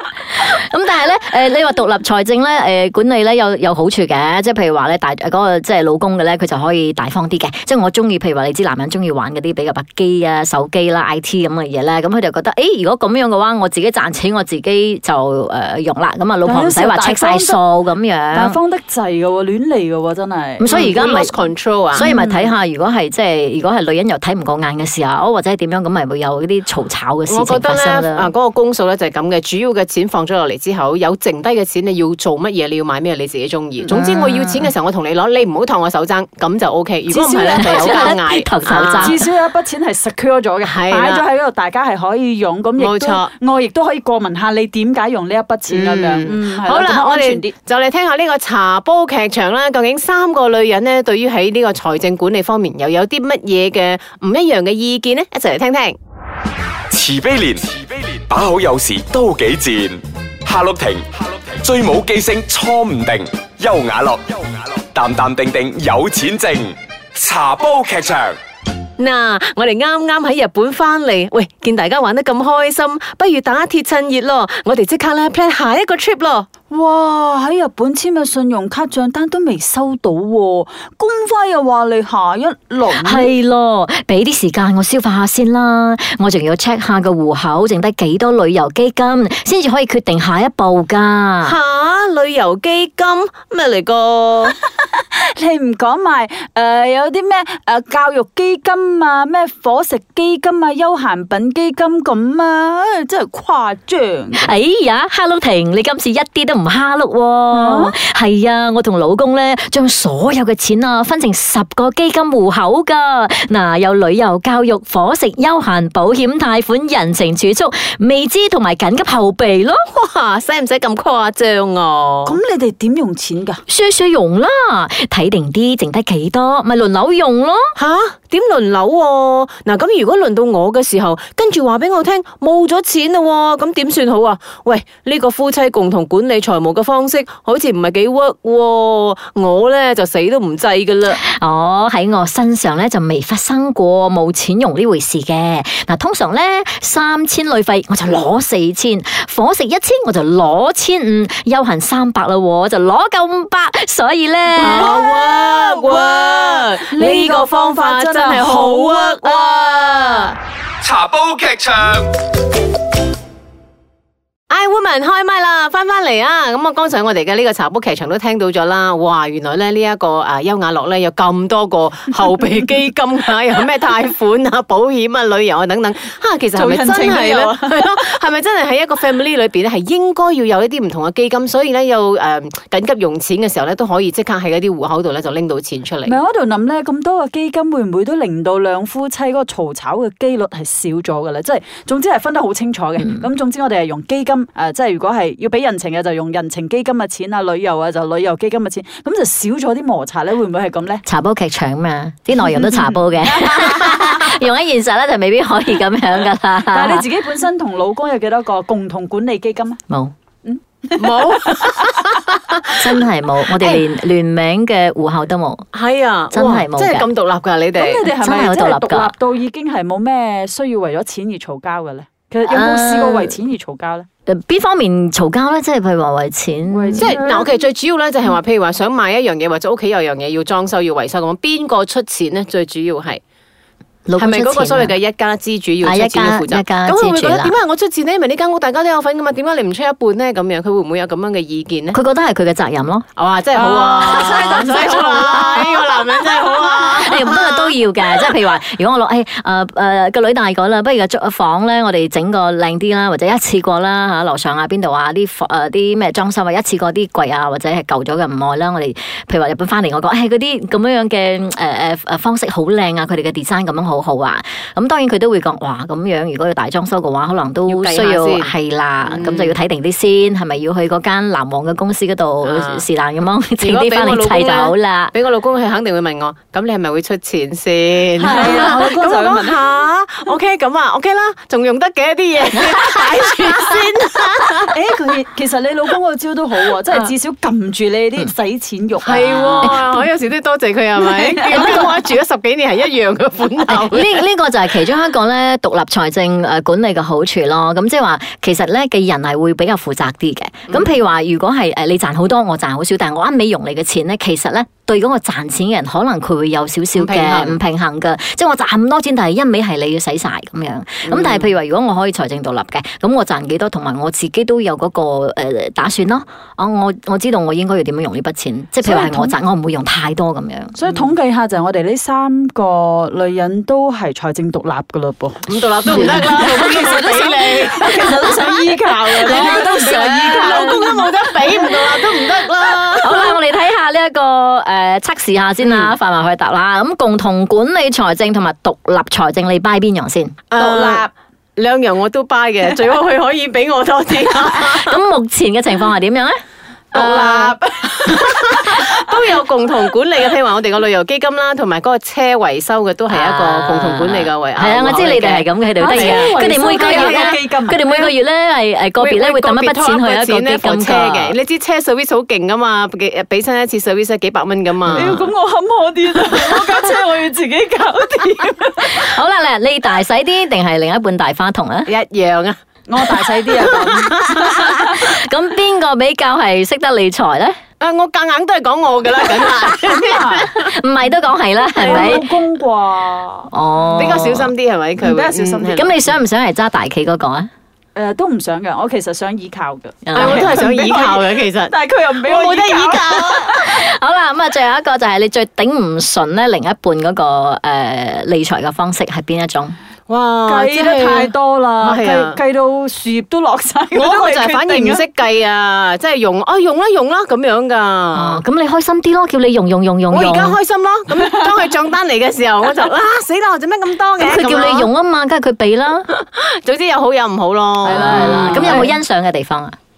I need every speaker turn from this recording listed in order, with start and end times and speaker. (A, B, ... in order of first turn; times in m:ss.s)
0:00.4-0:18.6 A
0:16.4-0:17.6 B
0:18.3-0:21.3 B
0:20.6-0:21.3 A
0:20.7-0:22.1 C
0:21.9-0:28.3 A
0:22.0-0:22.5 B
0:27.3-0:39.2 C
0:33.9-0:34.7 A
0:37.1-0:38.2 B
0:37.5-0:39.2 A
0:38.9-0:47.5 B
0:40.6-0:41.2 C
0:42.8-0:43.3 C
0:45.7-0:56.0 C
0:56.9-1:08.4 D
1:09.0-1:16.5 C
1:16.7-1:23.3 B
1:22.9-1:31.6 A
1:31.4-1:34.6 C
1:35.4-1:44.5 B
1:44.3-1:59.8 A
1:47.5-1:48.0 B
1:59.9-2:02.4 C
2:02.2-2:03.6 B
2:03.7-2:07.7 A
2:07.8-2:21.2 C
2:21.2-2:34.9 A
2:34.6-2:40.3 C
2:36.9-2:39.3 B
2:40.8-2:42.0 D
2:44.5-3:06.2 C
2:56.5-2:57.9 B
3:06.0-3:21.0 B
3:13.0-3:13.2 A
3:21.0-3:27.0 A
3:22.6-3:23.0 B
3:23.6-3:24.1 B
3:26.7-3:29.8 B
3:30.4-3:31.6 B
3:31.0-3:32.8 C
3:32.8-3:35.7 A
3:33.6-3:33.8 C
3:35.7-3:38.1 C
3:36.3-3:37.1 A
3:37.7-3:44.1 B
3:38.1-3:39.1 A
3:42.5-3:43.4 A
3:44.3-3:47.2 A
3:46.7-3:47.5 B
3:47.0-3:53.2 C
3:54.1-3:54.9 A
3:54.2-4:02.0 C
3:55.8-3:57.5 A
4:01.9-4:03.0 A
4:03.2-4:08.2 C
4:03.5-4:06.4 B
4:04.0-4:05.7 A
4:06.4-4:35.1 A
4:27.7-4:29.6 C
4:32.4-4:32.8 C
4:33.6-4:44.6 C
4:38.2-4:39.6 B
4:44.7-4:49.8 B
4:49.0-4:54.2 C
4:51.0-4:51.8 B
4:53.7-5:20.8 A
5:00.7-5:00.9 C
5:07.0-5:07.6 C
5:11.0-5:11.5 C
5:18.8-5:19.3 B
5:20.7-5:31.0 B
5:25.5-5:33.4 C
5:25.9-5:26.3 A
5:29.2-5:31.0 A
5:33.0-5:40.4 A
5:35.6-5:35.9 C
5:40.5-5:45.0 C
5:40.6-5:41.1 B
5:44.6-5:46.4 A
5:46.9-5:48.9 B
5:46.9-5:57.4 C
5:53.1-6:01.3 A
5:55.8-5:58.1 B
5:59.0-6:05.3 C
6:04.9-6:05.2 A
6:04.9-6:09.1 B
6:06.3-6:06.8 C
6:08.8-6:11.9 A
6:11.9-6:15.0 C
6:12.9-6:14.8 B
6:14.9-6:17.6 A
6:17.8-6:20.7 C
6:19.9-6:20.4 B
6:20.6-6:22.2 A
6:21.8-6:23.5 B
6:21.8-6:22.2 C
6:23.5-6:24.5 A
6:23.9-6:26.0 C
6:25.0-6:25.8 B
6:25.7-6:27.5 A
6:27.9-6:33.6 B
6:30.0-6:30.6 A
6:30.1-6:33.6 C
6:33.5-6:39.8 A
6:40.1-6:42.4 C
6:40.5-6:45.0 B
6:43.9-6:48.4 C
6:48.1-6:50.6 A
6:50.1-6:54.9 C
6:54.2-6:56.0 A
6:56.2-6:58.9 C
6:57.8-6:59.0 B
6:57.8-6:59.8 A